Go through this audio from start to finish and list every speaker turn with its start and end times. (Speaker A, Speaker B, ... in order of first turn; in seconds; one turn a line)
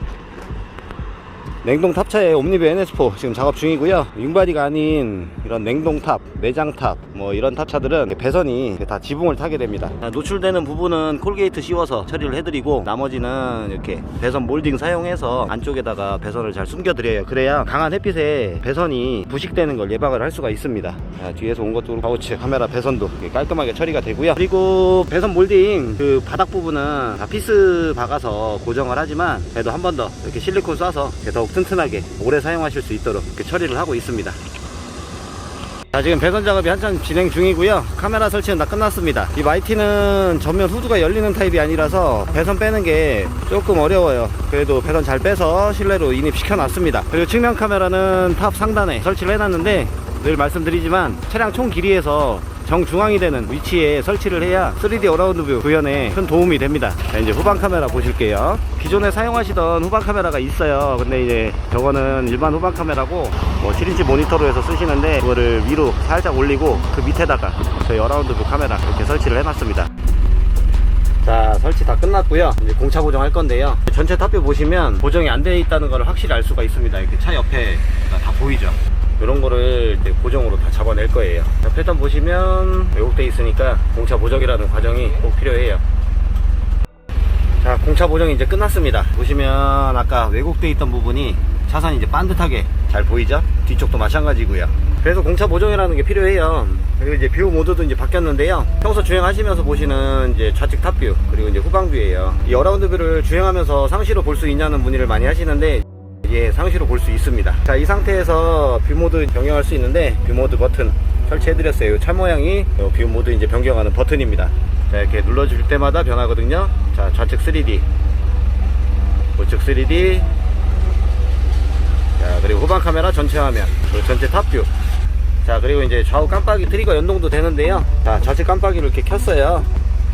Speaker A: 1.6-34.4
Speaker A: 35.9-69.9
Speaker A: 71.2-85.8
Speaker A: 87.6-117.9
Speaker A: 119.4-120.3
Speaker A: 122.2-124.7
Speaker A: 125.4-129.7